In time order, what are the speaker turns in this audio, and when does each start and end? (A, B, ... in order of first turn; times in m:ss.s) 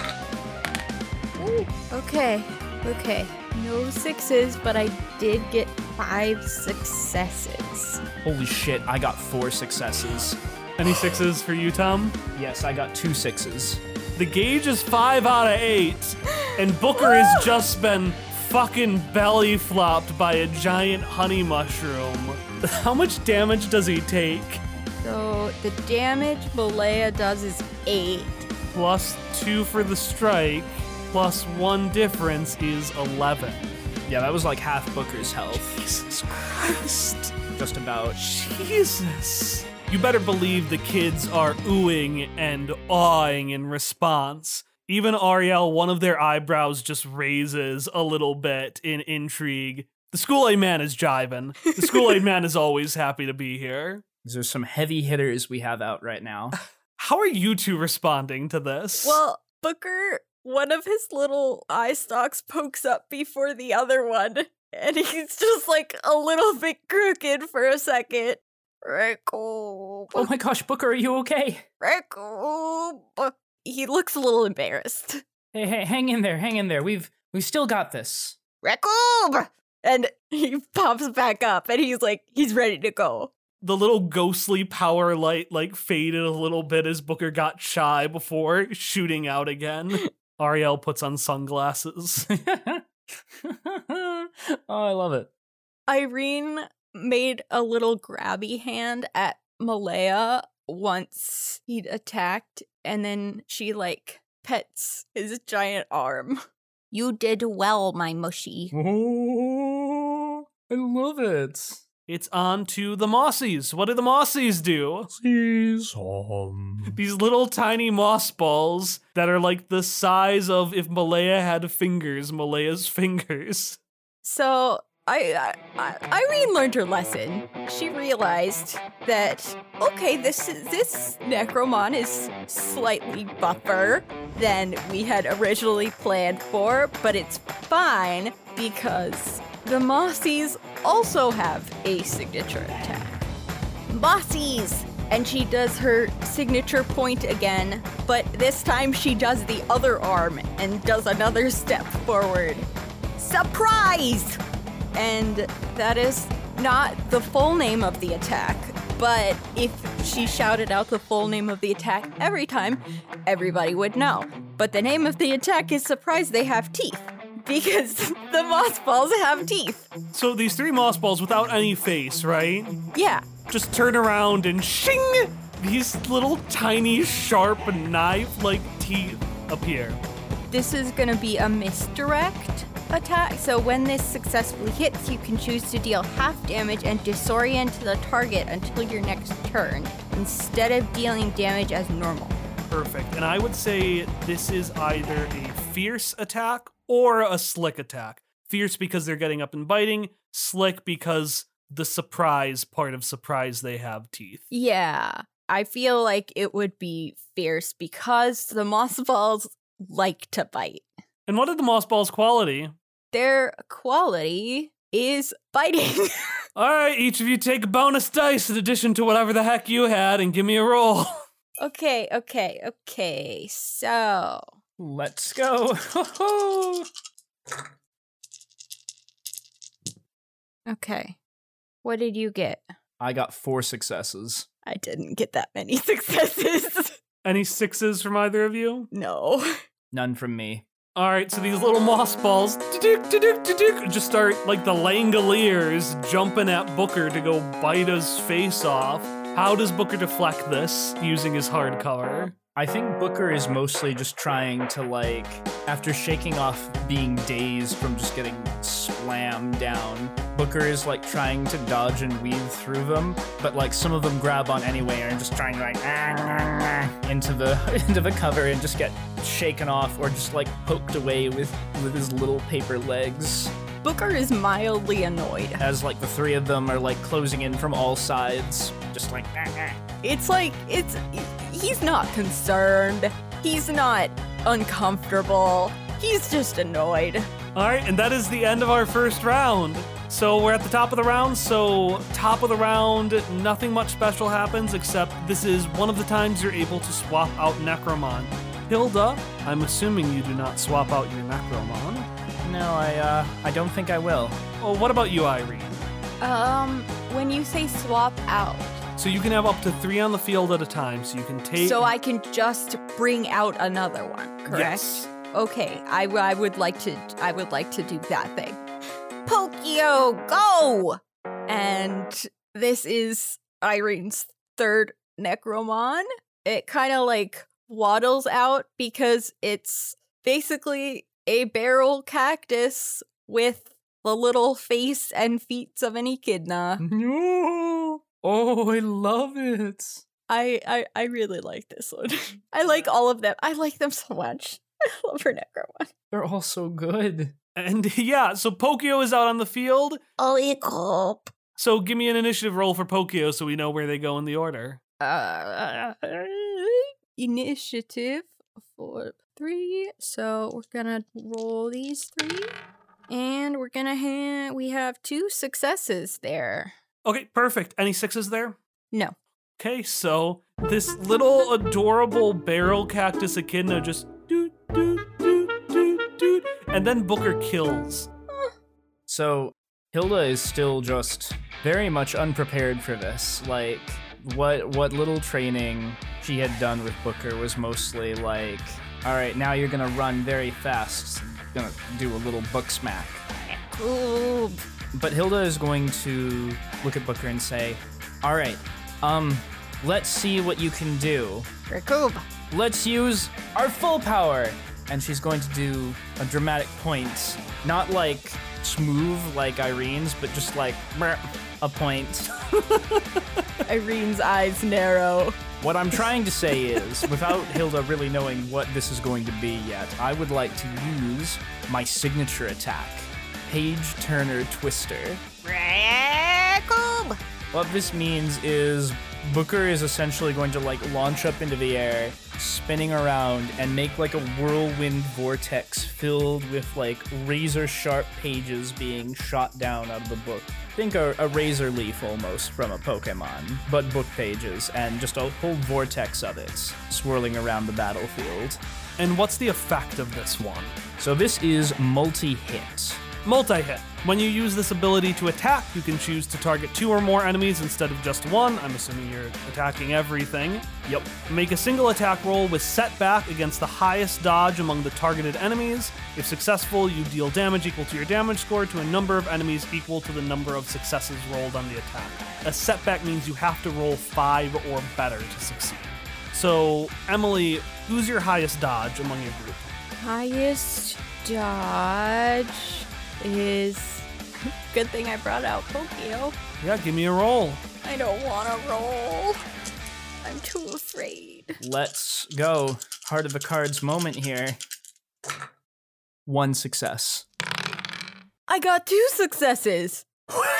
0:01.4-0:08.0 A
0:08.2-0:10.4 B
0:10.8-0:12.2 C
0:12.4-0:13.8 B
0:14.2-0:24.6 C
0:16.9-0:17.6 A
0:25.0-0:28.5 A
0:28.7-0:33.7 C
0:34.1-0:35.7 B
0:35.5-0:37.3 C
0:37.5-0:38.2 B
0:38.2-0:54.0 C
0:54.2-0:56.6 B
0:57.0-0:59.2 C
0:59.0-1:10.3 A
1:10.1-1:11.6 B
1:11.8-1:15.2 A
1:15.5-1:18.4 B
1:18.6-1:23.3 A
1:23.6-1:32.3 C
1:32.3-1:35.3 B
1:35.9-1:48.7 A
1:48.7-1:51.8 B
1:52.1-1:55.1 C
1:55.1-1:57.0 B
1:56.9-2:03.8 C
2:04.2-2:23.2 A
2:23.9-2:34.4 A
2:34.9-2:49.9 A
2:50.1-2:52.8 C
2:52.9-2:53.3 A
2:53.5-3:00.0 C
3:00.5-3:12.4 A
3:12.7-3:24.4 C
3:24.5-3:30.9 A
3:31.3-3:32.7 C
3:33.1-3:36.4 A
3:36.6-3:41.2 C
3:41.6-3:44.5 A
3:44.8-3:46.9 B
3:50.7-3:51.2 A
3:51.8-3:52.7 A
3:53.0-3:54.5 B
3:54.6-3:57.0 A
3:57.2-3:58.9 C
3:58.9-3:59.6 A
3:59.9-4:00.6 B
4:00.9-4:12.3 C
4:12.4-4:33.5 B
4:33.8-4:35.6 A
4:35.6-4:39.8 B
4:40.0-4:47.3 A
4:47.6-5:02.1 C
5:02.4-5:04.4 B
5:04.6-5:05.9 C
5:06.2-5:08.8 A
5:09.0-5:11.9 C
5:11.6-5:18.6 A
5:14.5-5:15.1 C
5:19.3-5:36.8 A
5:36.8-5:40.0 B
5:40.3-5:45.9 A
5:46.1-5:47.4 B
5:47.6-5:50.0 C
5:50.2-5:51.3 A
5:51.6-5:54.8 C
5:55.0-6:02.5 A
6:03.1-6:06.7 A
6:07.0-6:08.6 C
6:09.6-6:18.1 C
6:19.1-6:33.2 B
6:33.5-6:34.6 A
6:34.9-6:41.5 B
6:41.7-6:42.3 A
6:42.5-6:52.3 B
6:52.6-6:53.2 C
6:53.7-6:55.4 A
6:55.6-7:05.2 B
7:05.4-7:07.2 A
7:07.5-7:28.6 B
7:29.0-7:30.8 C
7:31.0-7:33.0 B
7:33.2-7:40.7 C
7:41.2-7:59.6 C
8:00.0-8:04.1 A
8:04.7-8:06.4 A
8:06.6-8:07.6 C
8:07.8-8:09.4 A
8:10.2-8:11.6 A
8:11.6-8:14.6 B
8:16.3-8:17.3 B
8:18.5-8:20.1 A